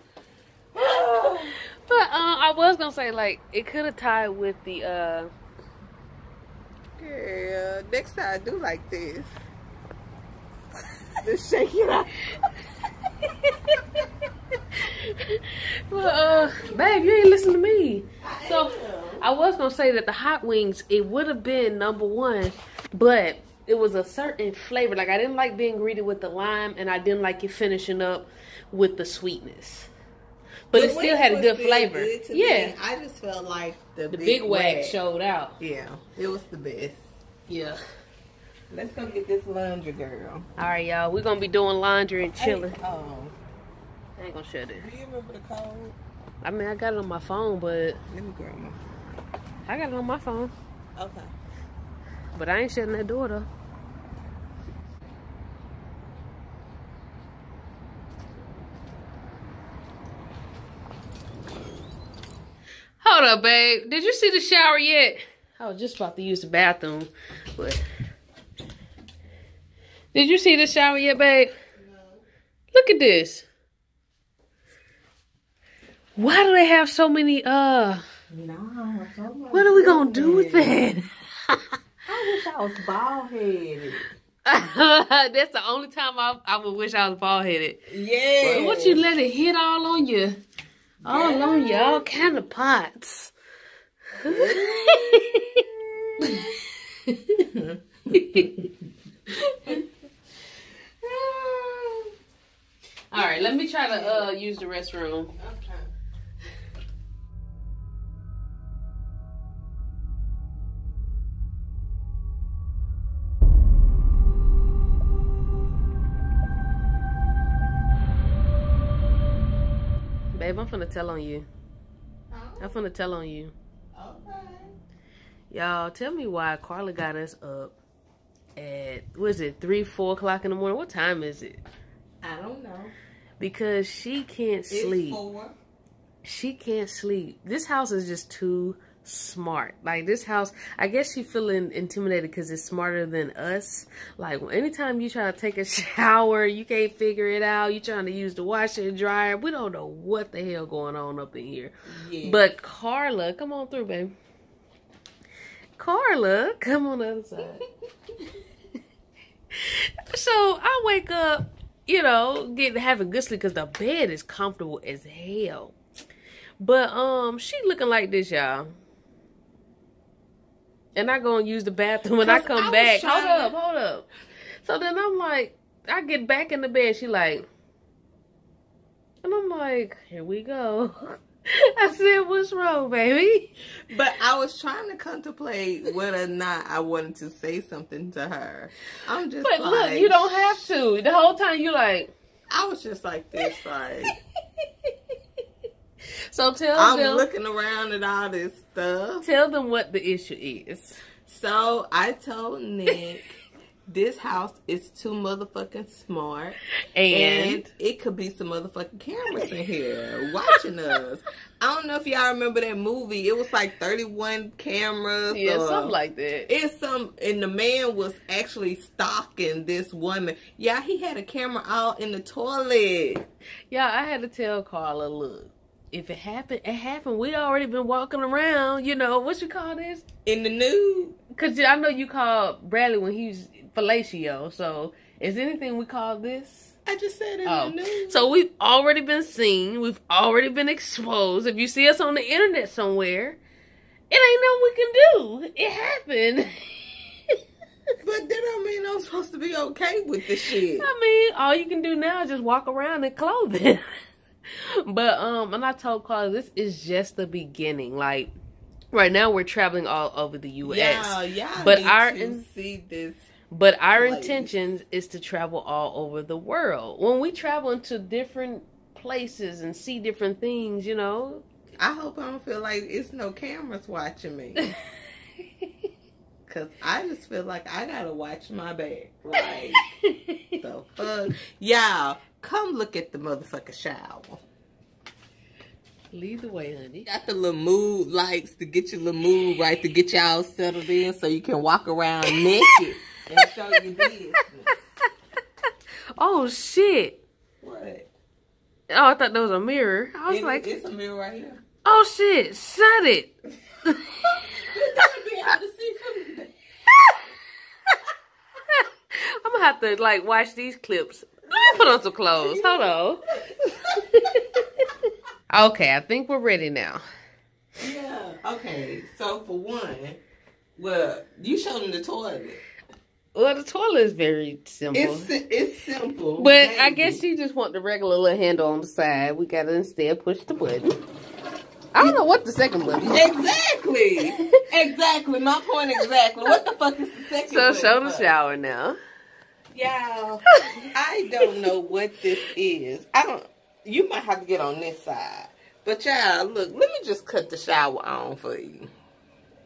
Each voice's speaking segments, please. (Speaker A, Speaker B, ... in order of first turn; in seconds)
Speaker A: 0.7-1.6, 7.0-9.3, 11.2-12.3, 16.0-17.2, 18.2-19.2, 30.7-35.0, 35.6-37.1, 38.7-40.5, 42.4-43.3, 44.7-46.0, 48.1-48.8, 51.0-51.3, 71.8-72.2, 78.3-80.7, 82.1-84.1, 87.9-89.0, 91.0-92.3, 94.2-96.5, 97.5-98.7, 101.0-102.1, 103.1-104.3, 105.4-105.9, 122.3-122.7, 123.9-124.7, 132.2-132.9, 134.7-135.5, 151.9-152.4, 172.2-173.5, 183.9-190.3, 192.5-194.1, 196.7-199.2, 201.2-203.4, 203.9-206.6, 207.1-215.9, 216.5-223.2, 230.2-231.2, 236.8-238.3, 248.0-250.9, 260.6-263.3, 263.9-264.5, 271.8-274.7, 276.5-279.9, 280.6-284.4, 287.1-294.8, 297.6-298.1, 300.3-301.6, 304.6-306.5, 311.5-312.9, 313.5-314.0, 317.8-320.2, 320.8-322.6, 324.9-327.2, 333.1-338.3, 339.7-348.9
Speaker B: 1.8-5.3, 14.8-29.9, 30.7-32.8, 34.1-35.5, 37.5-37.8, 40.6-42.8, 44.2-44.9, 46.4-48.0, 49.7-50.5, 52.3-53.5, 63.0-67.8, 70.1-71.5, 72.7-73.5, 76.2-78.0, 79.5-81.6, 84.5-87.8, 88.4-90.4, 91.0-93.3, 94.2-95.6, 96.2-97.5, 98.1-98.6, 99.4-99.8, 103.1-105.3, 120.3-121.5, 122.6-123.5, 125.5-127.8, 128.6-131.6, 133.4-135.2, 136.2-154.1, 155.8-157.6, 159.5-165.7, 166.6-168.7, 170.9-174.1, 174.6-177.4, 179.2-183.5, 189.4-192.1, 194.6-194.9, 196.3-197.3, 199.2-201.0, 206.9-207.6, 215.3-216.5, 223.7-230.0, 231.3-236.7, 237.4-243.4, 244.1-246.5, 250.8-253.9, 254.5-258.3, 258.9-262.4, 263.5-271.4, 279.7-280.6, 286.1-287.1, 292.3-292.7, 296.2-297.2, 298.9-300.7, 301.8-303.3, 303.9-304.4, 308.7-313.2, 314.1-314.9, 315.5-317.0, 323.3-325.3, 326.4-331.0, 331.9-333.3, 337.5-339.0, 340.6-340.9